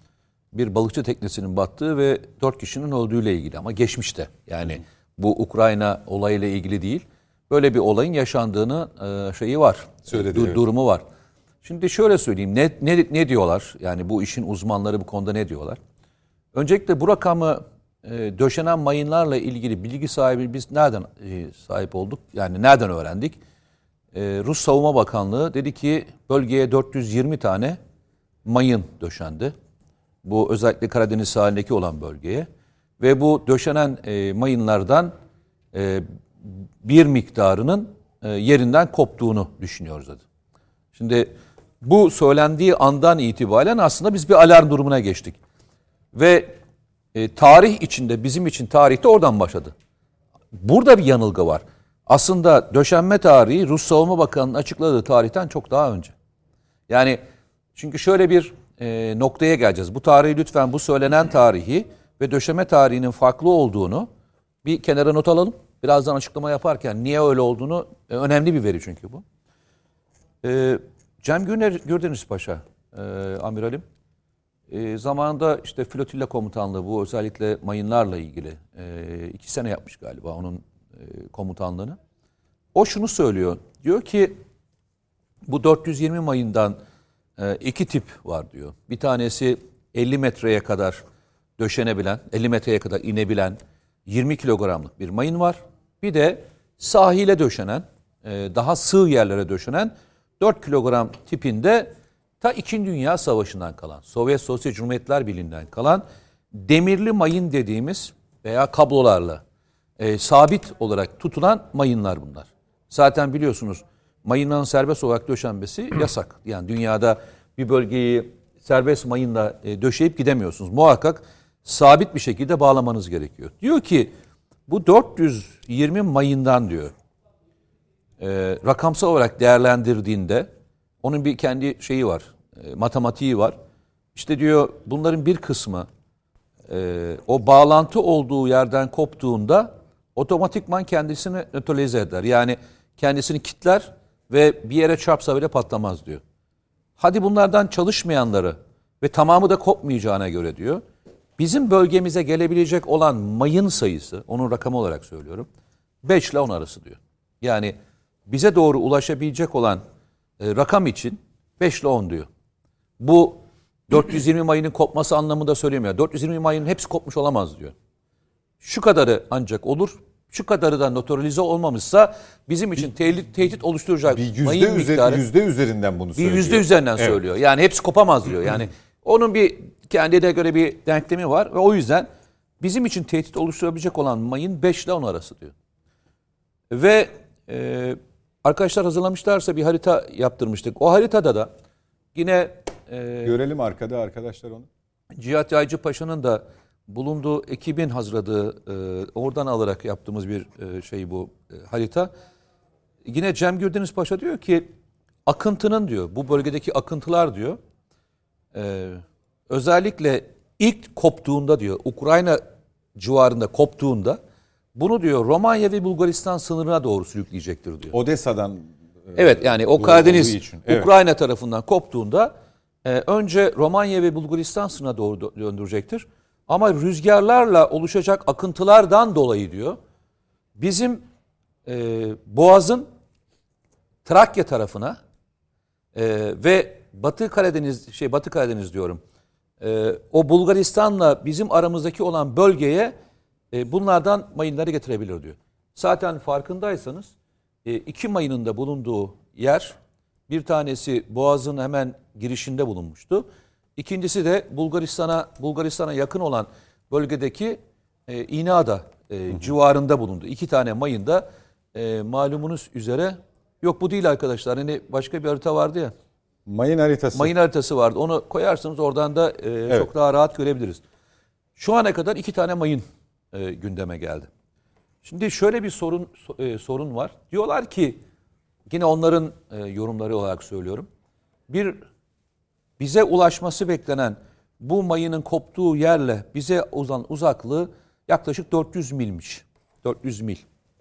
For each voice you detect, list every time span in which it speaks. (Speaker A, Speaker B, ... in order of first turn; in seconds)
Speaker A: 0.5-11.0, 11.6-15.8, 16.5-23.4, 24.1-27.8, 28.4-29.5, 30.2-32.5, 33.0-35.1, 35.7-40.2, 40.9-45.4, 46.1-46.6, 47.1-49.7, 50.5-56.1, 56.9-57.2, 57.8-64.1, 64.6-69.2, 70.4-73.8, 74.7-82.0, 82.8-84.4, 85.5-86.8, 87.4-91.0, 91.6-109.4, 110.0-124.1, 124.7-126.9, 128.2-130.5, 131.0-133.6, 134.1-135.9, 136.7-146.2, 147.0-150.8, 151.4-155.5, 156.0-159.8, 160.4-162.3, 163.0-167.7, 168.6-175.2, 176.2-185.5, 186.7-191.5, 192.1-193.3, 195.2-202.1, 203.0-204.7, 205.2-207.6, 208.5-212.4, 212.9-214.2, 214.8-217.9, 219.1-229.8, 230.6-231.0, 231.7-232.9, 234.1-235.0, 235.9-239.0, 239.6-242.9, 243.5-247.1, 247.6-249.8, 250.3-265.9, 267.1-270.8, 271.6-274.3, 275.0-278.0, 278.7-280.9, 281.5-281.8, 282.8-290.4
Speaker B: 10.1-10.6, 174.1-177.2, 193.2-194.7, 217.9-220.9, 266.4-267.3